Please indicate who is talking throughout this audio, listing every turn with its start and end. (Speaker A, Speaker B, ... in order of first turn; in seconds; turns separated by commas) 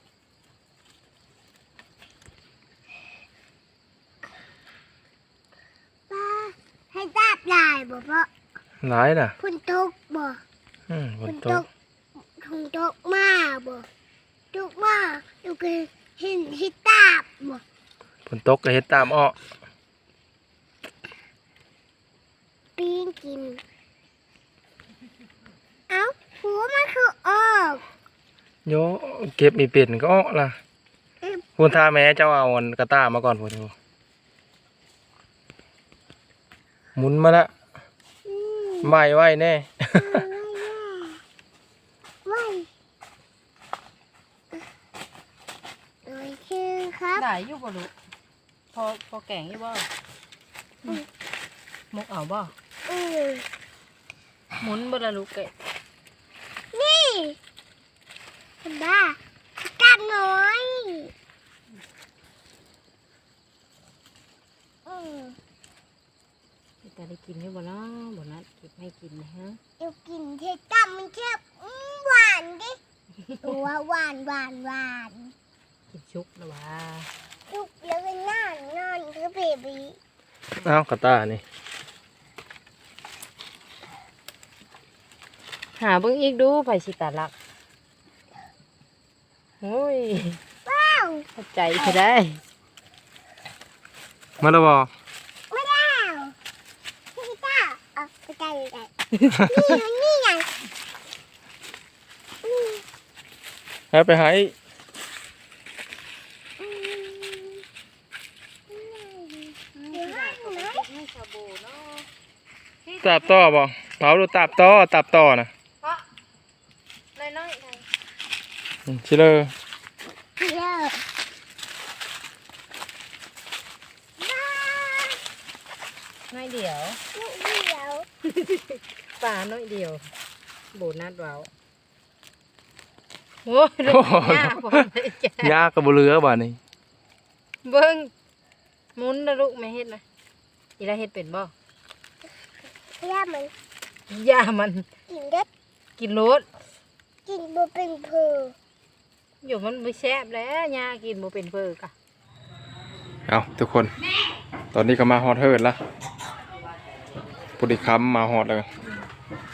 Speaker A: 6.1-8.3, Speaker B: 8.8-9.3, Speaker A: 9.4-10.4, Speaker B: 10.9-11.6, Speaker A: 11.2-11.7, Speaker A: 12.4-13.8, Speaker A: 14.5-17.6, Speaker B: 18.3-19.3, Speaker A: 22.8-23.6, Speaker A: 25.9-27.8, Speaker B: 28.6-30.6, Speaker B: 31.6-33.7, Speaker B: 37.0-37.5, Speaker A: 38.2-38.9, Speaker B: 38.8-40.2, Speaker A: 40.0-41.2, Speaker A: 42.2-42.7, Speaker A: 46.0-47.2, Speaker C: 47.1-47.9, Speaker C: 48.7-49.9, Speaker C: 51.9-52.5, Speaker A: 52.9-53.4, Speaker C: 54.6-55.5, Speaker A: 56.7-57.4, Speaker A: 58.6-61.1, Speaker A: 64.8-65.4, Speaker C: 66.8-69.6, Speaker A: 69.8-72.8, Speaker C: 73.3-73.6, Speaker A: 73.4-75.3, Speaker C: 75.9-77.1, Speaker A: 77.5-80.0, Speaker B: 80.6-81.4, Speaker C: 85.8-87.3, Speaker C: 89.6-90.4, Speaker A: 90.7-91.3, Speaker C: 91.3-92.4, Speaker B: 94.4-94.9, Speaker A: 95.5-96.3, Speaker A: 97.2-100.5, Speaker A: 102.4-102.8, Speaker B: 103.9-104.5, Speaker A: 106.6-107.6, Speaker A: 108.7-110.8, Speaker C: 109.7-112.1, Speaker C: 112.8-113.4, Speaker B: 113.0-115.5, Speaker C: 117.2-117.8, Speaker B: 118.9-119.5, Speaker A: 120.4-121.0, Speaker A: 124.2-125.2, Speaker C: 126.3-127.0, Speaker A: 127.1-128.1, Speaker C: 128.3-130.0, Speaker C: 130.7-131.5, Speaker C: 133.4-135.5, Speaker B: 133.9-134.9, Speaker B: 135.4-136.6, Speaker C: 137.6-138.1, Speaker C: 138.9-140.0, Speaker C: 140.8-141.5, Speaker A: 143.0-143.5, Speaker C: 144.1-144.9, Speaker A: 145.1-145.5, Speaker C: 146.0-146.5, Speaker A: 147.2-148.5, Speaker C: 149.4-151.9, Speaker B: 153.3-153.9, Speaker B: 154.7-155.8, Speaker B: 157.6-158.7